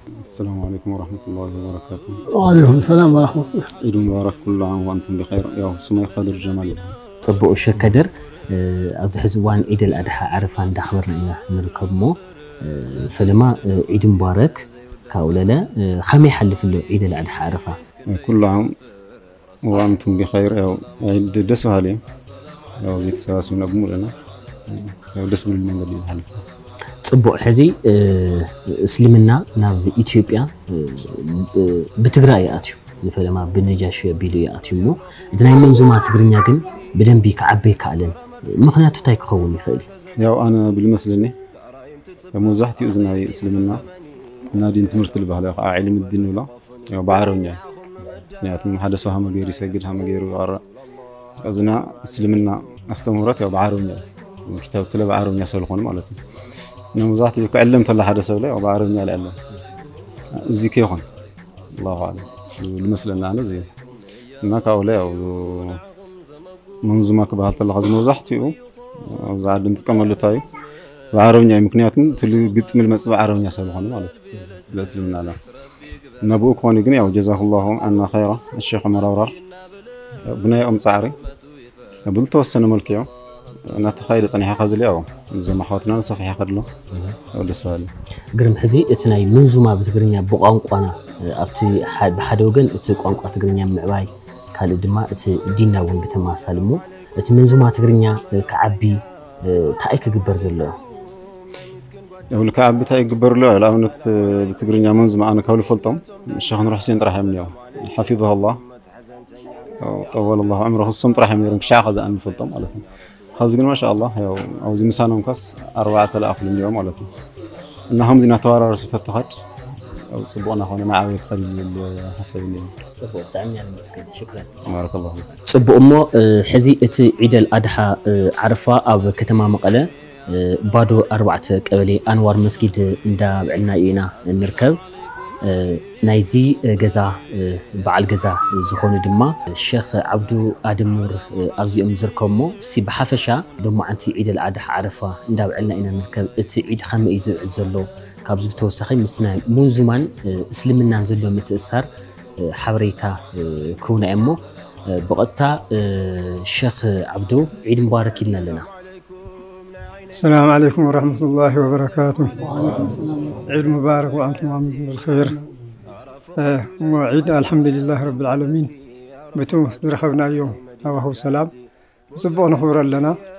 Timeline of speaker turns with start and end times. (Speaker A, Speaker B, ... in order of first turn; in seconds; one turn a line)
Speaker A: 0.2-2.2
Speaker B: 2.3-3.7
Speaker A: 3.8-6.9
Speaker C: 7.2-17.8
Speaker A: 18.1-18.7
Speaker A: 19.6-22.0
Speaker A: 22.8-24.1
Speaker A: 24.7-26.4
Speaker C: 27.1-39.9
Speaker A: 40.2-41.3
Speaker A: 42.3-43.8
Speaker A: 44.5-47.6
Speaker A: 48.4-50.6
Speaker A: 51.4-56.2
Speaker A: 56.9-59.4
Speaker A: 60.4-61.0
Speaker A: 61.8-63.7
Speaker A: 64.4-65.8
Speaker A: 66.8-70.4
Speaker A: 71.1-75.4
Speaker A: 76.2-79.3
Speaker A: 80.3-81.2
Speaker A: 82.1-83.1
Speaker A: 83.7-86.7
Speaker A: 87.3-87.9
Speaker C: 88.4-100.7
Speaker A: 102.3-108.6
Speaker A: 109.8-112.8
Speaker A: 113.4-117.1
Speaker A: 117.9-119.3
Speaker A: 120.1-122.7
Speaker C: 123.0-124.6
Speaker A: 124.7-125.3
Speaker C: 125.5-134.8
Speaker C: 135.4-151.8
Speaker C: 152.4-154.4
Speaker C: 154.9-158.7
Speaker D: 160.1-162.3
Speaker B: 162.4-163.4
Speaker D: 163.5-165.3
Speaker D: 166.4-168.7
Speaker D: 169.3-171.5
Speaker D: 172.1-173.2